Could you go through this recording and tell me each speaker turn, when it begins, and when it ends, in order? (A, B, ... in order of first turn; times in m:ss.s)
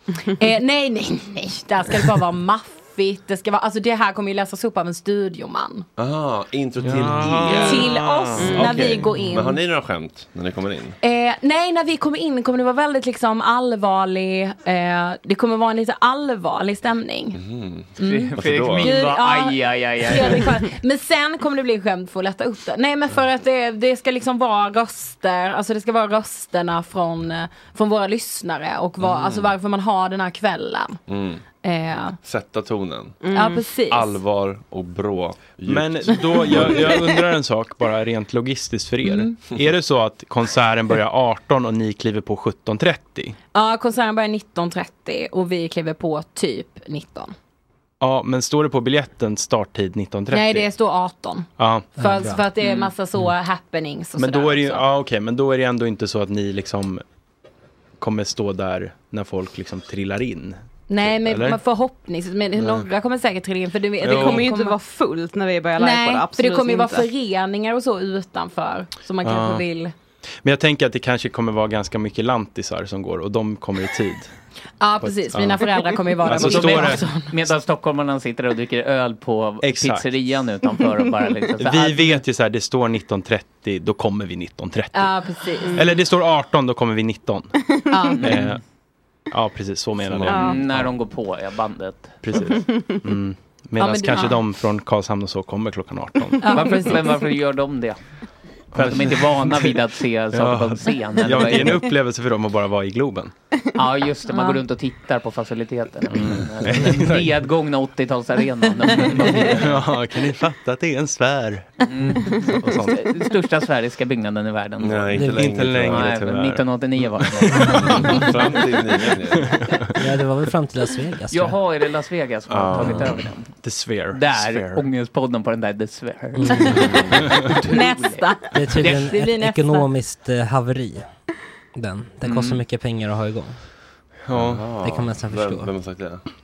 0:00.4-0:05.9 A
0:06.0-0:11.0 B
0:06.8-0:09.1 C
0:07.4-0:09.6 A
0:11.0-0:17.4 A
0:17.4-0:18.9 B
0:18.0-0:31.0 A
0:18.0-0:20.5 D
0:29.0-0:29.5 B
0:31.1-0:31.4 B
0:31.6-0:32.2 A
0:32.2-0:33.2 B
0:33.2-0:33.6 E
0:33.3-0:34.2 A
0:33.9-0:36.9 B
0:35.6-0:43.4 C
0:39.0-0:39.3 A
0:43.5-0:47.4 A
0:48.0-0:50.7 C
0:50.3-0:54.8 A
0:51.6-0:51.9 C
0:52.0-0:52.4 F
0:52.6-0:52.9 D
0:54.2-0:57.0 C
0:58.0-1:01.6 C
1:00.9-1:04.8 A
1:02.6-1:02.9 C
1:04.0-1:04.5 C
1:04.0-1:07.1 E
1:05.8-1:09.9 A
1:09.2-1:09.7 C
1:10.4-1:14.4 C
1:14.8-1:17.4 A
1:15.0-1:17.0 C
1:16.3-1:22.2 D
1:19.6-1:20.1 C
1:21.6-1:28.6 C
1:24.9-1:25.9 A
1:27.9-1:28.2 A
1:28.1-1:28.6 D
1:29.3-1:30.9 C
1:30.1-1:30.6 B
1:30.3-1:32.2 D
1:32.2-1:36.7 C
1:33.8-1:34.4 A
1:36.4-1:37.1 A
1:36.4-1:38.0 D
1:38.7-1:41.9 D
1:38.7-1:43.3 C
1:43.8-1:49.8 D
1:44.3-1:44.6 A
1:46.1-1:47.4 C
1:49.0-1:53.0 C
1:51.9-1:58.5 D
1:54.8-1:56.2 B
1:55.2-1:58.6 C
1:55.2-1:55.5 F
1:57.8-1:59.8 B
1:59.4-1:59.8 C
2:00.0-2:01.6 F
2:01.3-2:03.5 D
2:02.5-2:03.0 B
2:02.5-2:04.8 C
2:04.1-2:09.1 D
2:06.4-2:07.0 F
2:06.6-2:06.9 A
2:06.8-2:07.1 B
2:07.6-2:09.9 A
2:08.5-2:11.1 F
2:11.8-2:13.6 F
2:12.2-2:12.6 D
2:14.3-2:14.6 C
2:14.3-2:16.2 B
2:14.8-2:15.7 F